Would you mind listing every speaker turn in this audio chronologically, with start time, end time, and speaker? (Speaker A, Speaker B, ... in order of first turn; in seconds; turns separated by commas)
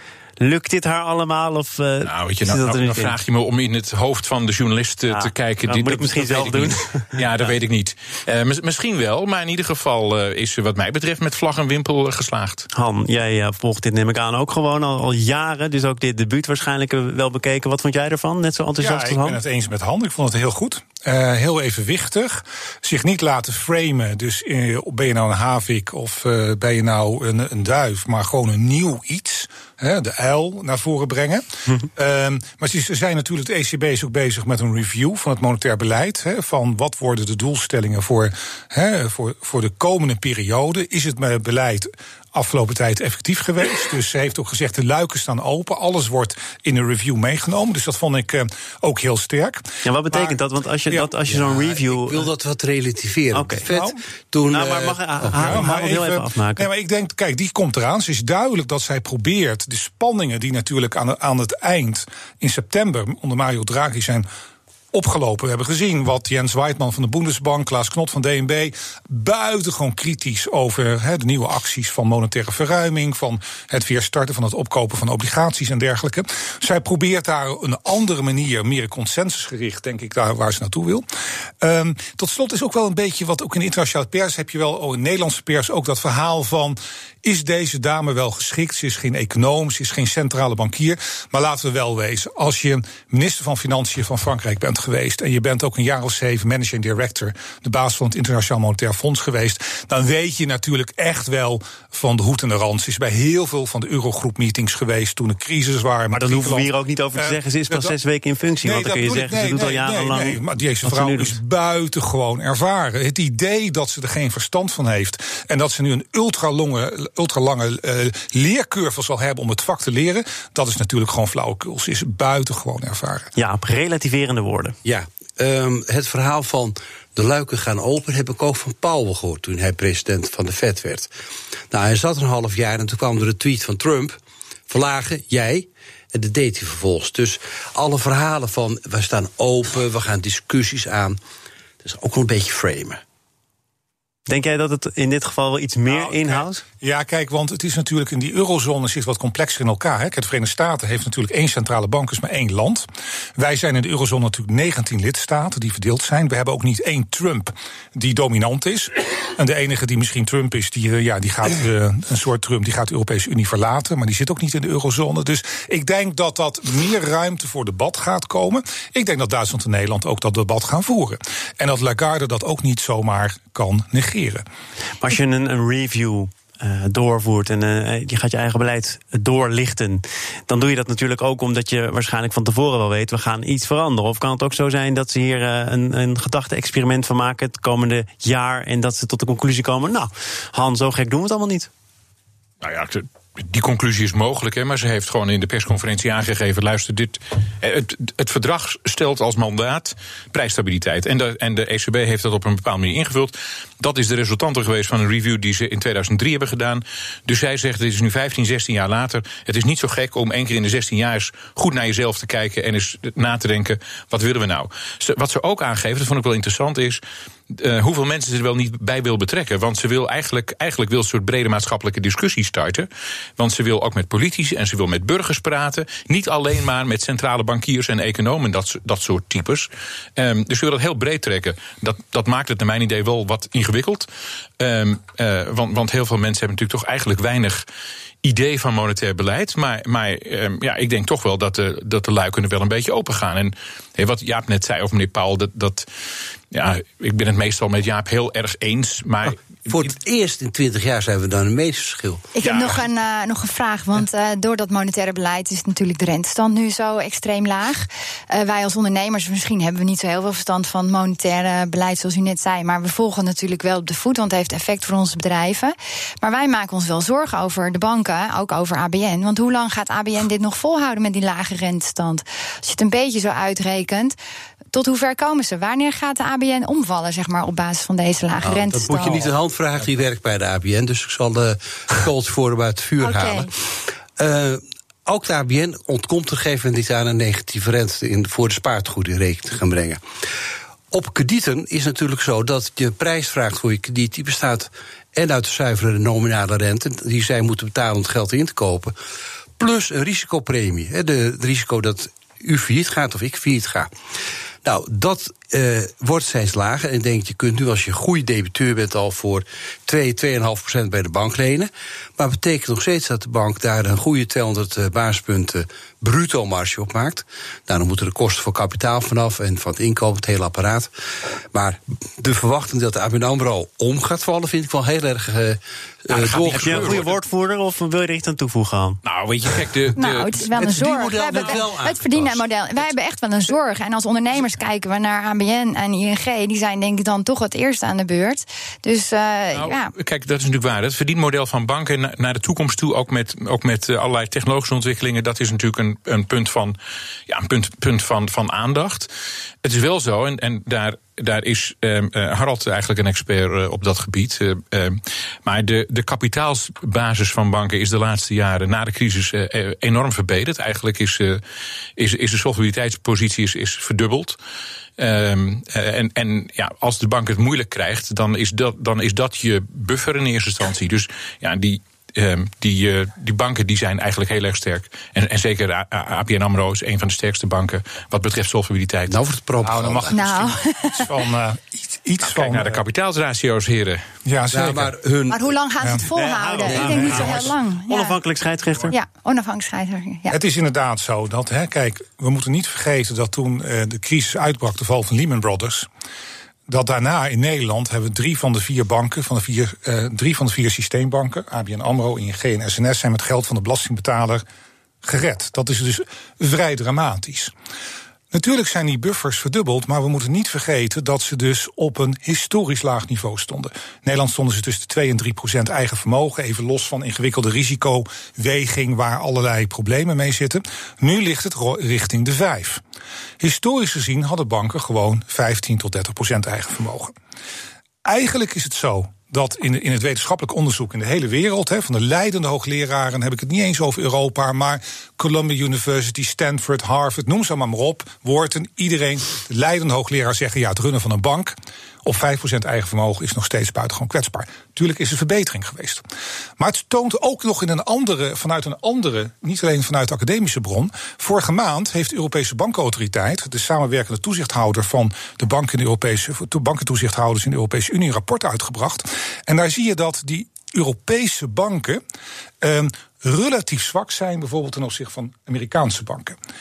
Speaker A: 0.4-3.1, Speaker B: 2.0-12.7, Speaker A: 5.1-7.1, Speaker A: 12.7-19.4, Speaker C: 18.8-50.4, Speaker A: 49.9-52.3, Speaker D: 51.2-55.6, Speaker A: 53.3-53.7, Speaker A: 54.5-56.7, Speaker C: 55.3-64.3, Speaker C: 64.9-81.0, Speaker C: 81.6-108.0, Speaker A: 106.1-111.4, Speaker C: 108.6-123.3, Speaker A: 123.4-124.8, Speaker D: 124.8-131.1, Speaker D: 131.7-134.2, Speaker D: 134.7-141.2, Speaker D: 141.8-143.0, Speaker A: 144.3-146.6, Speaker C: 145.9-174.4, Speaker A: 175.0-191.7, Speaker B: 192.6-234.1, Speaker B: 234.6-237.7, Speaker B: 238.2-245.9, Speaker B: 246.5-249.9, Speaker D: 249.3-252.3, Speaker E: 252.3-274.2, Speaker B: 252.4-252.8, Speaker E: 274.7-279.3, Speaker D: 278.4-283.5, Speaker E: 283.0-283.5, Speaker D: 284.2-290.0, Speaker D: 290.9-298.9, Speaker D: 299.6-303.9, Speaker D: 304.6-320.9, Speaker D: 321.5-327.0, Speaker B: 326.1-327.1, Speaker A: 326.5-329.0, Speaker B: 329.1-330.5, Speaker E: 329.9-339.9, Speaker D: 330.6-332.4, Speaker B: 339.5-346.8, Speaker B: 347.3-349.1, Speaker B: 349.6-361.4, Speaker B: 362.0-364.4, Speaker B: 365.0-379.2, Speaker D: 379.1-380.4, Speaker C: 379.6-382.8, Speaker E: 380.1-381.1, Speaker B: 382.2-384.0, Speaker C: 384.2-384.9, Speaker D: 384.5-385.5, Speaker E: 385.3-388.2, Speaker C: 385.8-386.1, Speaker A: 386.1-389.0, Speaker D: 386.7-387.2, Speaker C: 386.8-387.5, Speaker E: 388.9-390.4, Speaker C: 390.3-395.9, Speaker C: 396.7-404.4, Speaker C: 405.0-407.5, Speaker C: 408.3-422.8, Speaker C: 423.4-427.1, Speaker C: 428.0-446.0, Speaker C: 446.6-462.0, Speaker C: 462.6-466.4